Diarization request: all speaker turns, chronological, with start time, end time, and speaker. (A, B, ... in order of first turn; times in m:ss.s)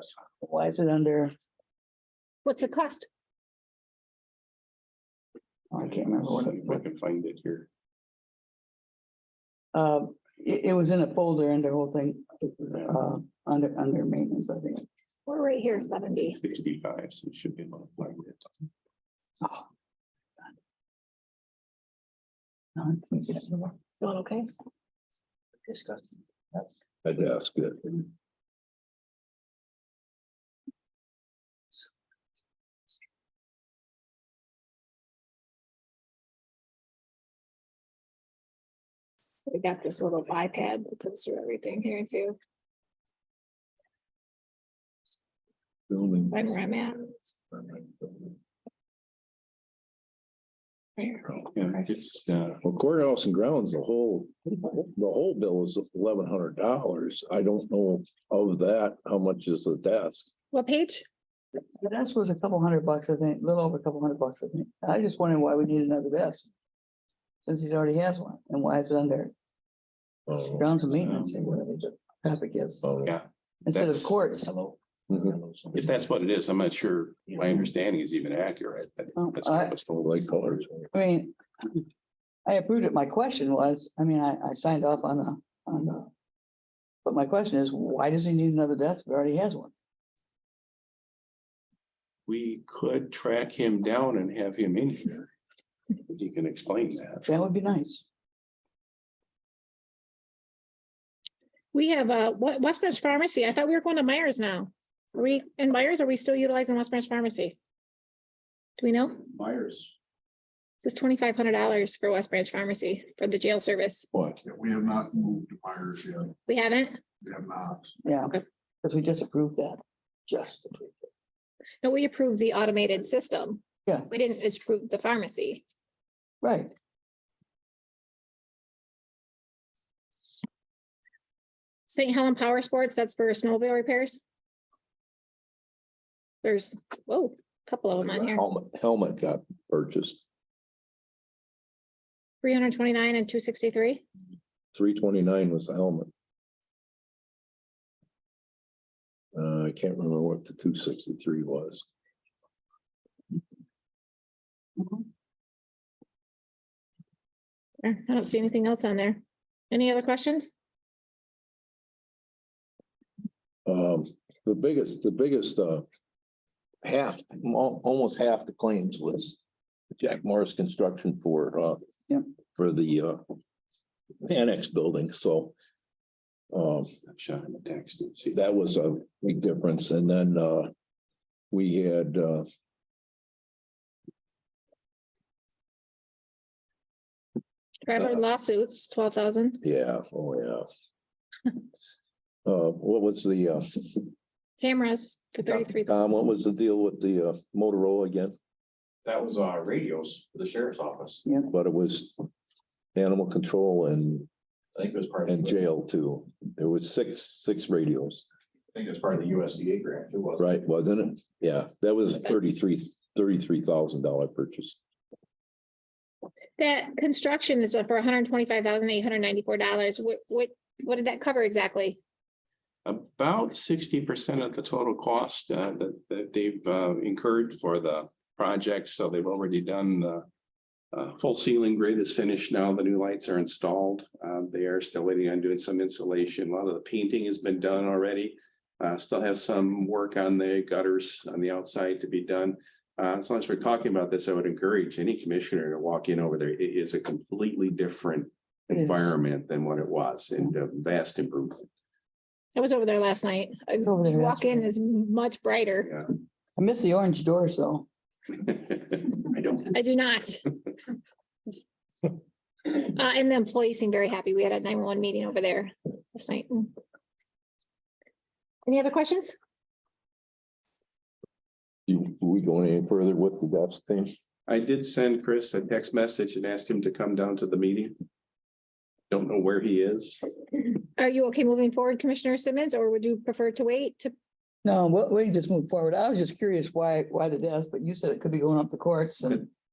0:00.4-0:01.3 A
0:02.4-0:03.1 B
0:05.7-0:06.8 A
0:05.8-0:07.7 C
0:09.7-0:14.9 A
0:15.2-0:16.4 B
0:16.4-0:18.5 C
0:19.4-0:19.6 A
0:22.8-0:23.7 A
0:24.0-0:24.5 B
0:25.7-0:26.0 A
0:27.0-0:27.9 D
0:39.5-0:42.4 B
0:45.9-0:46.5 D
0:46.3-0:47.1 B
0:47.5-0:48.3 D
0:51.0-0:51.8 B
0:51.5-0:52.6 C
0:52.6-1:00.3 D
1:00.5-1:01.0 B
1:01.8-1:06.5 A
1:07.4-1:09.3 A
1:10.3-1:10.7 D
1:10.6-1:12.8 A
1:11.0-1:11.4 C
1:12.8-1:13.1 D
1:13.0-1:14.2 C
1:13.6-1:14.5 A
1:15.1-1:15.4 D
1:15.3-1:15.6 E
1:15.7-1:20.6 C
1:19.2-1:19.8 A
1:20.0-1:20.8 D
1:20.9-1:21.8 A
1:22.4-1:26.1 A
1:27.0-1:29.7 A
1:32.3-1:35.3 C
1:36.1-1:37.3 C
1:37.3-1:38.0 A
1:41.7-1:47.6 B
1:48.8-1:49.2 B
1:49.3-1:49.9 C
1:50.8-1:54.1 B
1:54.1-1:54.4 D
1:54.4-1:56.3 F
1:56.5-1:57.0 B
1:57.2-1:57.9 F
1:58.0-2:01.1 A
2:01.8-2:05.6 B
2:06.4-2:06.7 A
2:11.9-2:14.2 B
2:16.4-2:18.4 B
2:18.0-2:20.2 D
2:22.4-2:24.0 B
2:24.7-2:26.1 D
2:29.3-2:31.8 D
2:37.8-2:40.5 B
2:43.6-2:45.8 D
2:46.8-2:49.4 D
2:50.0-2:51.8 D
2:52.6-2:53.2 D
2:54.2-2:55.5 D
2:56.5-2:56.9 D
2:57.1-2:58.4 C
2:58.3-3:00.7 D
3:01.5-3:02.4 D
3:07.8-3:09.6 B
3:09.6-3:10.7 D
3:12.4-3:14.1 D
3:14.6-3:15.9 B
3:15.5-3:18.4 D
3:19.0-3:21.2 E
3:21.5-3:22.2 D
3:22.9-3:24.3 D
3:24.7-3:25.7 E
3:25.2-3:28.2 D
3:28.7-3:30.5 E
3:30.4-3:34.8 D
3:36.6-3:42.0 B
3:42.8-3:50.2 C
3:50.9-4:11.6 C
4:08.7-4:09.1 A
4:12.5-4:15.9 B
4:13.8-4:14.7 A
4:16.6-4:17.9 A
4:19.5-4:20.6 B
4:22.6-4:26.7 B
4:28.6-4:29.4 B
4:31.9-4:34.2 D
4:34.5-4:37.9 C
4:39.1-4:40.2 C
4:41.0-4:44.1 B
4:44.6-4:49.5 A